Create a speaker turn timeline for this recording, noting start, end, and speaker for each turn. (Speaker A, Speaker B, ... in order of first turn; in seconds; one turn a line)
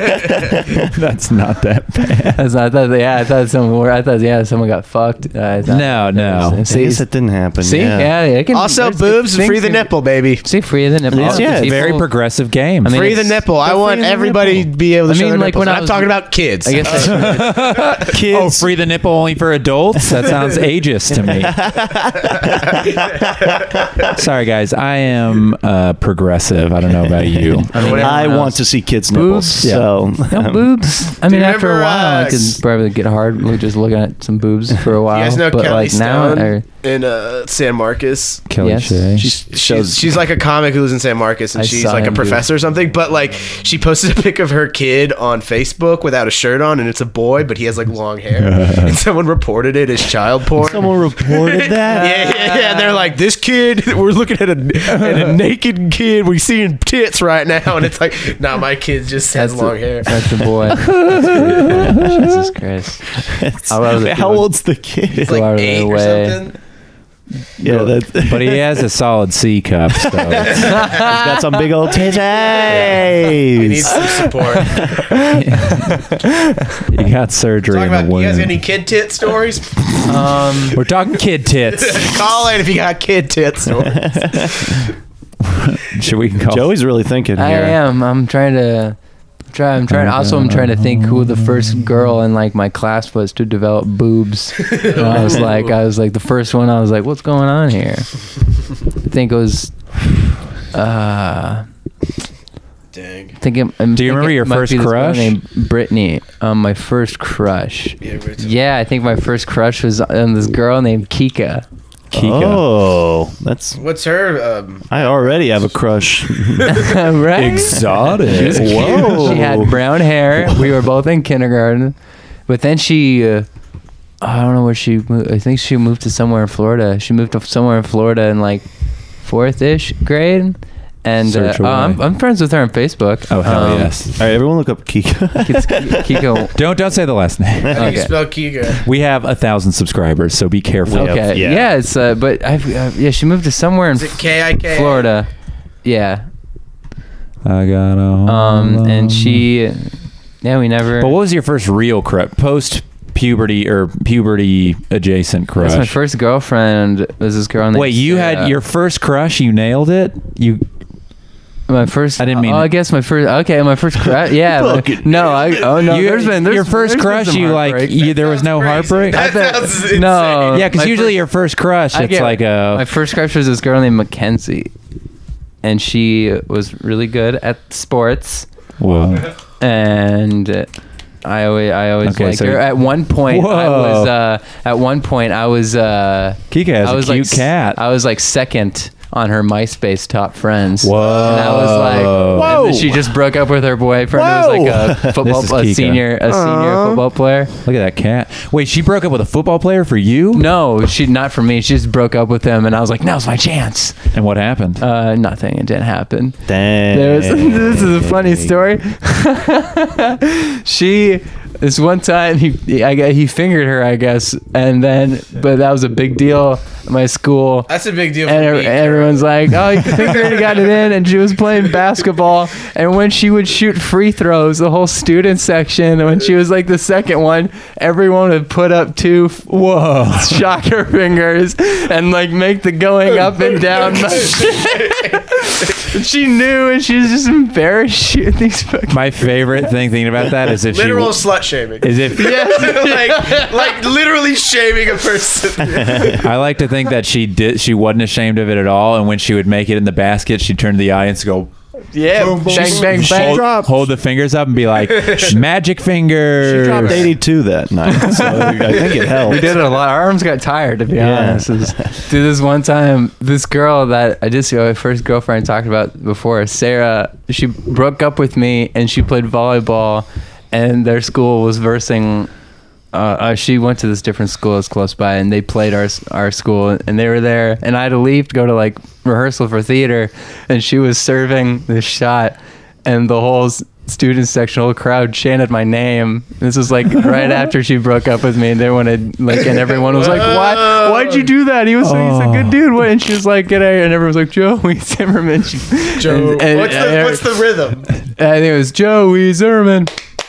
Speaker A: 0.8-2.4
Speaker B: 2.4-12.1
Speaker A: 5.7-6.6
Speaker C: 6.6-8.1
Speaker D: 8.5-10.4
Speaker C: 11.1-11.9
Speaker A: 11.1-13.0
Speaker B: 12.8-13.4
Speaker D: 12.9-17.5
Speaker C: 13.6-14.7
Speaker B: 15.1-17.4
Speaker A: 16.9-21.6
Speaker C: 18.1-18.7
Speaker C: 21.1-24.1
Speaker A: 24.1-27.7
Speaker C: 27.7-30.9
Speaker B: 27.7-36.6
Speaker D: 27.7-28.4
Speaker A: 29.6-29.9
Speaker D: 31.2-32.6
Speaker D: 35.1-38.4
Speaker A: 38.5-39.3
Speaker B: 38.6-39.0
Speaker C: 39.2-40.2
Speaker D: 39.3-60.1
Speaker B: 41.5-42.5
Speaker A: 48.3-49.0
Speaker C: 50.6-52.3
Speaker B: 51.9-53.0
Speaker A: 54.9-55.4
Speaker B: 60.0-63.1
Speaker A: 60.8-62.4
Speaker C: 63.2-65.4
Speaker B: 63.6-64.5
Speaker B: 65.2-66.4
Speaker D: 65.2-66.5
Speaker C: 67.6-68.8
Speaker A: 68.2-70.7
Speaker C: 70.0-74.1
Speaker B: 70.6-71.5
Speaker D: 72.0-75.0
Speaker A: 75.3-76.0
Speaker B: 75.8-76.8
Speaker A: 76.9-78.6
Speaker D: 77.7-80.8
Speaker B: 80.0-80.8
Speaker A: 80.7-82.3
Speaker D: 81.7-84.7
Speaker C: 83.7-84.9
Speaker A: 85.4-86.7
Speaker C: 86.5-87.8
Speaker B: 87.4-89.0
Speaker B: 89.5-98.1
Speaker A: 89.9-92.1
Speaker D: 94.6-95.7
Speaker B: 99.0-99.8
Speaker B: 100.7-101.7
Speaker D: 102.9-103.3
Speaker B: 103.4-111.6
Speaker A: 103.9-105.3
Speaker D: 108.0-108.5
Speaker A: 112.1-112.7
Speaker C: 112.1-113.8
Speaker D: 113.8-115.4
Speaker C: 114.9-116.9
Speaker B: 116.7-121.9
Speaker A: 117.3-119.4
Speaker C: 118.2-119.8
Speaker B: 122.5-123.5
Speaker B: 124.2-128.6
Speaker B: 129.2-133.9
Speaker A: 131.2-132.0
Speaker A: 133.3-134.1
Speaker C: 134.2-136.4
Speaker B: 135.4-136.5
Speaker A: 136.5-137.9
Speaker D: 137.7-138.8
Speaker B: 137.7-138.1
Speaker A: 138.8-141.3
Speaker C: 140.8-141.7
Speaker B: 140.9-145.3
Speaker D: 143.9-145.1
Speaker B: 145.8-146.2
Speaker A: 147.4-149.4
Speaker B: 148.2-151.1
Speaker A: 151.0-155.9
Speaker B: 155.6-158.5
Speaker A: 157.7-160.6
Speaker B: 161.7-167.9
Speaker A: 162.2-162.7
Speaker C: 164.1-165.9
Speaker A: 165.9-169.2
Speaker D: 168.0-170.7
Speaker B: 169.1-171.2
Speaker A: 170.5-172.9
Speaker B: 171.9-174.7
Speaker B: 175.6-178.5
Speaker A: 178.8-179.3
Speaker B: 179.6-180.7
Speaker B: 181.2-197.5
Speaker A: 182.0-184.1
Speaker A: 186.5-187.8
Speaker A: 190.8-192.6
Speaker C: 192.2-193.1
Speaker C: 194.1-195.2
Speaker A: 195.2-196.1
Speaker D: 196.2-197.0
Speaker A: 197.6-200.5
Speaker B: 200.3-204.0
Speaker A: 204.1-204.8
Speaker B: 204.8-217.7
Speaker C: 206.4-208.6
Speaker D: 217.7-220.7
Speaker B: 218.2-239.0
Speaker A: 229.5-230.4
Speaker D: 234.2-235.2
Speaker A: 238.9-241.2
Speaker D: 240.7-246.2
Speaker A: 241.8-242.8
Speaker B: 242.2-243.6
Speaker C: 245.6-246.2
Speaker A: 246.2-251.5
Speaker B: 251.9-253.5
Speaker C: 252.2-253.8
Speaker A: 252.4-257.1
Speaker D: 255.0-255.3
Speaker B: 256.6-256.9
Speaker C: 256.6-259.5
Speaker B: 258.0-272.3
Speaker C: 260.9-261.9
Speaker B: 272.9-297.3
Speaker D: 289.9-291.2
Speaker A: 291.8-292.6
Speaker D: 296.0-297.9
Speaker B: 298.2-299.9